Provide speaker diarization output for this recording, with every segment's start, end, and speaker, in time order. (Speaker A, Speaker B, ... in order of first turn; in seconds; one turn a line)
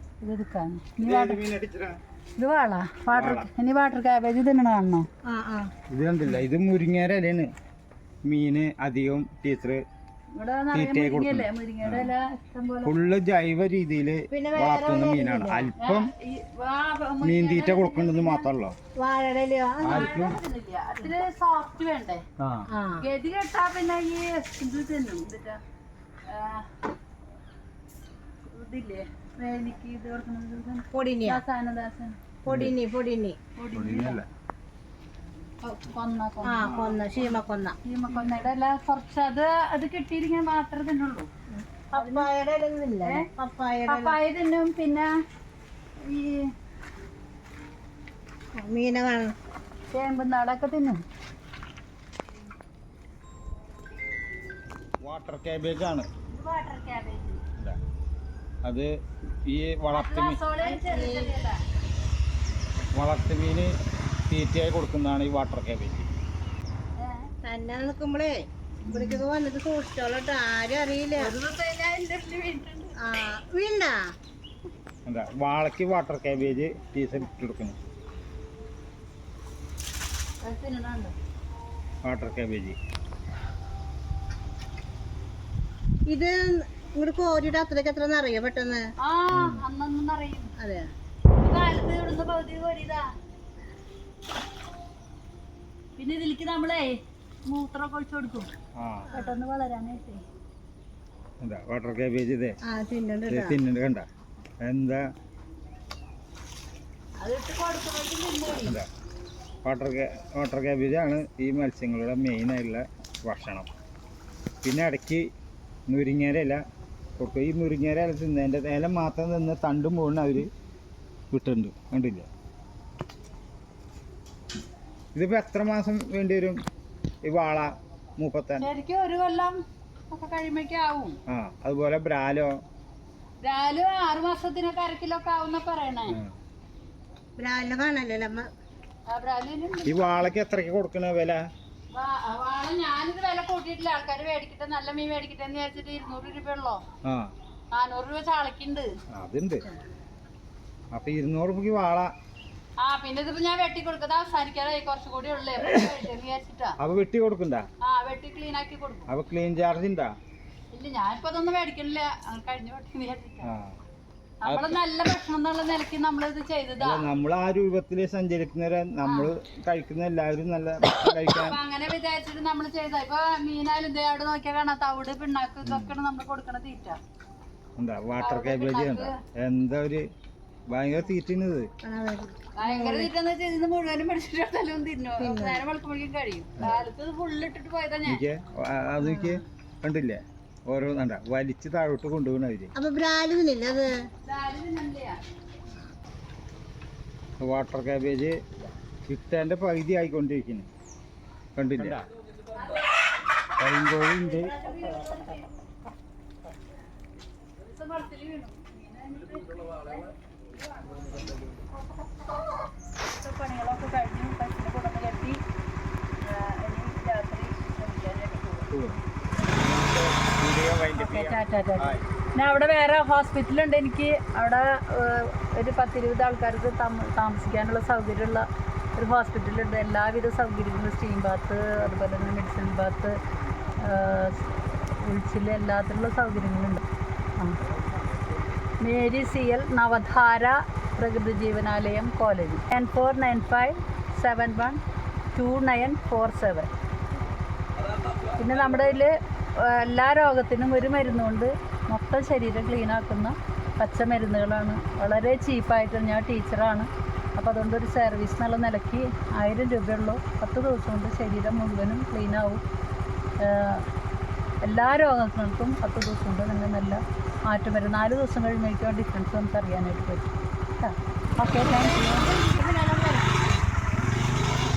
Speaker A: 0.2-1.4
Speaker B: 1.0-1.9
Speaker A: 2.4-5.0
Speaker B: 3.1-3.5
Speaker C: 5.2-5.7
Speaker B: 5.9-7.5
Speaker B: 8.2-9.8
Speaker A: 10.3-12.9
Speaker B: 10.7-12.1
Speaker B: 12.8-16.1
Speaker C: 14.3-15.7
Speaker A: 15.8-18.5
Speaker B: 17.2-18.8
Speaker C: 19.0-20.1
Speaker A: 19.8-22.2
Speaker B: 19.8-20.4
Speaker B: 22.4-22.6
Speaker C: 22.7-23.0
Speaker A: 23.0-25.6
Speaker A: 26.3-26.7
Speaker A: 28.5-32.2
Speaker C: 30.9-31.4
Speaker C: 32.4-33.4
Speaker B: 32.5-32.7
Speaker A: 33.6-34.2
Speaker B: 33.7-34.3
Speaker A: 35.6-37.3
Speaker C: 36.4-37.8
Speaker B: 36.6-37.0
Speaker A: 37.8-41.3
Speaker B: 38.1-38.5
Speaker C: 41.6-44.1
Speaker A: 42.0-42.3
Speaker A: 43.9-45.1
Speaker A: 46.0-46.4
Speaker C: 48.6-49.3
Speaker A: 49.9-51.0
Speaker B: 55.0-56.1
Speaker A: 56.3-57.4
Speaker B: 59.4-60.4
Speaker A: 59.9-61.6
Speaker C: 60.6-61.3
Speaker B: 62.9-63.7
Speaker B: 64.3-66.1
Speaker A: 67.0-67.3
Speaker C: 67.4-68.3
Speaker A: 68.8-69.2
Speaker C: 68.9-71.3
Speaker A: 71.2-72.9
Speaker C: 73.0-73.9
Speaker B: 75.0-77.8
Speaker A: 80.4-81.1
Speaker B: 82.0-82.8
Speaker C: 86.1-88.8
Speaker A: 89.0-90.5
Speaker B: 89.3-89.6
Speaker C: 90.6-90.9
Speaker A: 91.4-93.0
Speaker A: 96.0-98.5
Speaker B: 98.8-99.1
Speaker C: 99.1-99.4
Speaker A: 99.1-100.2
Speaker B: 101.4-102.6
Speaker C: 102.7-103.6
Speaker B: 103.3-104.1
Speaker B: 104.6-105.0
Speaker A: 107.2-108.8
Speaker B: 108.6-108.9
Speaker B: 109.6-113.7
Speaker B: 114.6-115.3
Speaker B: 115.9-116.6
Speaker B: 117.2-120.5
Speaker B: 121.3-122.3
Speaker B: 125.1-126.6
Speaker B: 127.2-128.7
Speaker A: 128.6-129.6
Speaker A: 130.1-131.2
Speaker B: 131.3-132.5
Speaker A: 133.4-136.2
Speaker B: 136.1-136.3
Speaker C: 137.4-138.5
Speaker A: 139.1-140.1
Speaker B: 139.8-141.4
Speaker A: 141.9-146.8
Speaker B: 147.0-147.3
Speaker A: 147.7-148.9
Speaker B: 149.1-149.6
Speaker B: 150.9-152.1
Speaker A: 152.8-156.8
Speaker B: 155.6-155.9
Speaker B: 156.8-157.7
Speaker A: 157.8-159.1
Speaker B: 159.1-160.1
Speaker A: 160.7-163.5
Speaker B: 163.4-163.8
Speaker B: 164.4-164.8
Speaker A: 164.4-167.1
Speaker B: 166.8-171.6
Speaker A: 169.0-169.3
Speaker A: 171.1-177.0
Speaker B: 175.6-175.9
Speaker B: 177.8-180.1
Speaker A: 178.2-179.1
Speaker B: 180.7-181.7
Speaker C: 181.8-183.1
Speaker A: 182.6-188.2
Speaker C: 185.2-185.6
Speaker B: 186.6-186.8
Speaker B: 188.1-192.7
Speaker C: 189.0-189.4
Speaker C: 192.8-193.9
Speaker A: 194.2-195.2
Speaker B: 197.4-198.4
Speaker B: 199.1-200.7
Speaker B: 201.6-202.1
Speaker A: 202.5-202.8
Speaker B: 203.6-204.5
Speaker A: 204.5-205.5
Speaker C: 204.7-205.2
Speaker A: 207.6-211.6
Speaker A: 213.0-215.4
Speaker A: 216.2-218.7
Speaker B: 218.7-222.1
Speaker A: 220.9-233.2
Speaker A: 233.8-236.8
Speaker A: 238.8-244.8
Speaker A: 245.3-246.7
Speaker A: 248.4-262.6
Speaker A: 263.4-263.8
Speaker A: 264.6-272.2
Speaker C: 271.4-273.4